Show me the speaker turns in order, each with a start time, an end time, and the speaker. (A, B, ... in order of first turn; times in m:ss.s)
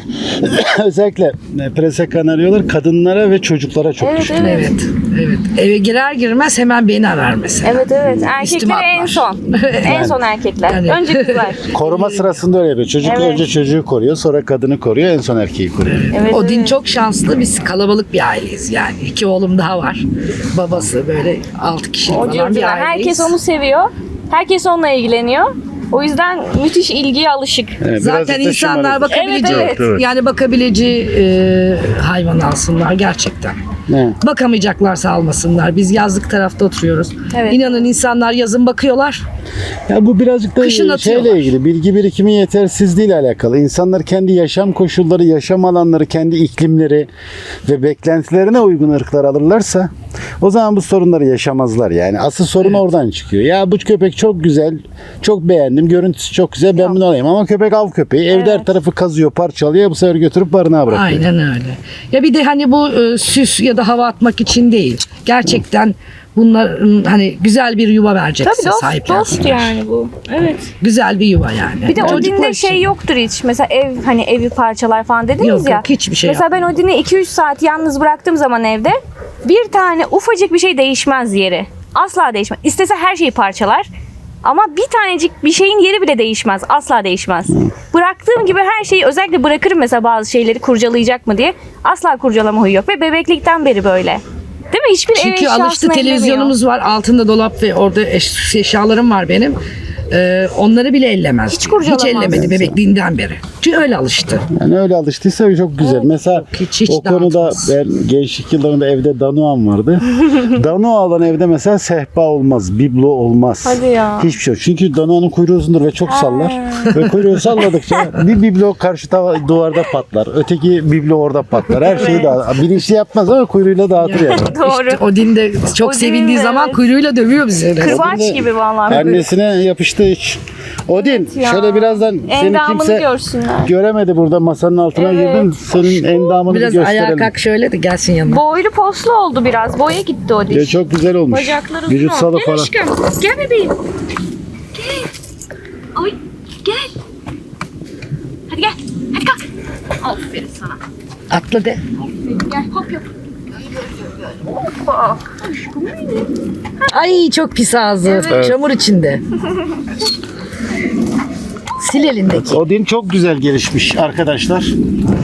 0:00.3-0:04.6 A
0:04.0-0:04.8 B
0:04.4-0:10.1 C
0:07.6-0:11.7 B
0:09.8-0:10.2 A
0:10.7-0:12.4 C
0:11.7-0:16.1 A
0:13.0-0:13.4 B
0:15.8-0:23.3 C
0:16.1-0:16.8 B
0:22.1-0:27.8 B
0:27.8-0:30.0 A
0:28.0-0:33.6 C
0:29.1-0:29.9 B
0:33.9-0:34.2 A
0:34.2-0:39.2 C
0:37.3-0:37.8 B
0:39.9-0:47.1 A
0:40.6-0:41.5 C
0:47.6-1:01.2 A
0:58.3-0:58.7 B
1:00.9-1:09.7 C
1:08.4-1:10.7 B
1:10.8-1:12.8 C
1:11.8-1:23.9 B
1:15.4-1:16.4 C
1:24.4-1:36.6 B
1:35.1-1:39.6 C
1:40.1-1:44.4 C
1:41.5-1:42.5 B
1:42.3-1:42.8 A
1:44.5-2:04.5 A
1:45.9-1:47.7 C
1:53.6-1:54.3 B
1:56.1-1:56.9 B
2:01.8-2:02.3 B
2:01.9-2:02.2 C
2:04.0-2:08.2 C
2:04.3-2:05.0 B
2:05.8-2:06.8 B
2:07.8-2:09.3 B
2:07.8-2:13.1 A
2:10.9-2:13.7 B
2:13.6-2:17.3 A
2:14.9-2:16.4 B
2:16.4-2:18.4 C
2:18.2-2:20.8 B
2:20.5-2:22.7 A
2:21.3-2:23.8 B
2:24.7-2:25.1 B
2:25.9-2:26.9 B
2:28.5-2:29.4 B
2:30.0-2:30.8 B
2:31.3-2:31.8 C
2:32.2-2:33.0 B
2:34.5-2:36.3 B
2:36.9-2:39.2 C
2:38.0-2:38.6 B
2:38.3-2:38.6 A
2:41.8-2:42.6 C
2:42.3-2:44.7 A